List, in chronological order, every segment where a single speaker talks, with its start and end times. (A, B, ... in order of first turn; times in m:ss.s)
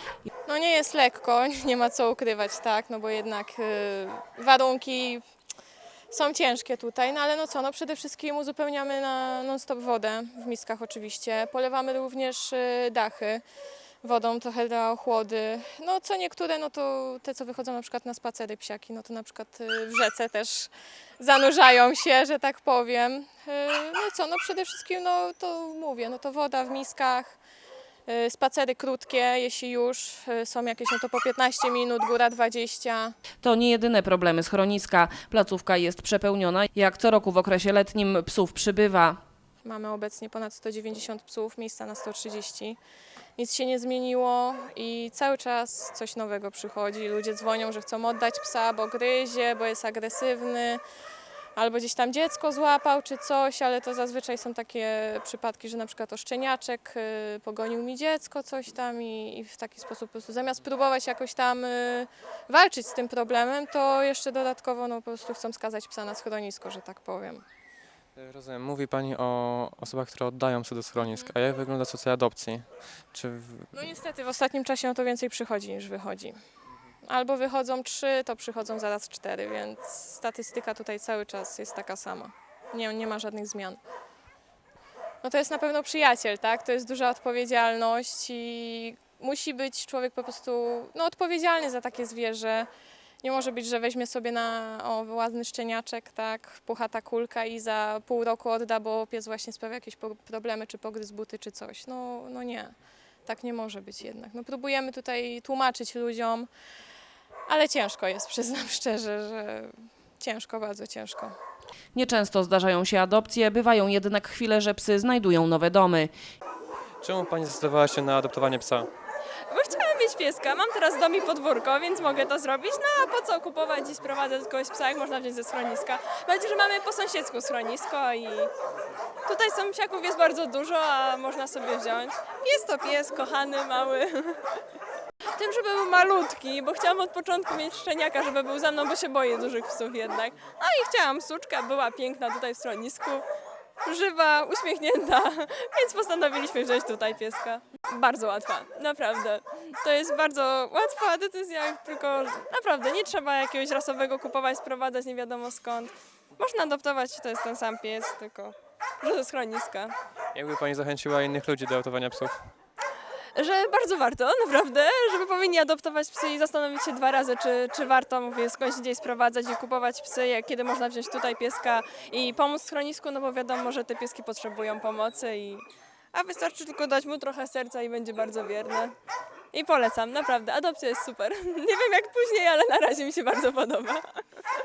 0:00.4-0:05.2 A
0:06.1-0:13.4 A
0:14.0-0:27.4 A
0:28.1-0:33.2 A
0:33.4-0:39.2 B
0:39.6-0:42.8 A
0:43.4-0:50.8 A
0:51.6-1:07.4 A
1:08.2-1:13.7 C
1:13.7-1:16.4 A
1:17.0-1:23.8 A
1:25.2-1:32.7 A
1:33.2-1:42.7 A
1:43.2-1:46.5 A
1:47.5-1:51.4 A
1:51.9-1:56.1 B
1:57.0-1:58.9 C
1:59.5-2:08.5 D
2:09.3-2:14.4 D
2:15.3-2:23.3 D
2:23.8-2:39.9 D
2:40.3-2:42.5 C
2:43.4-2:59.0 D
2:59.5-3:04.2 D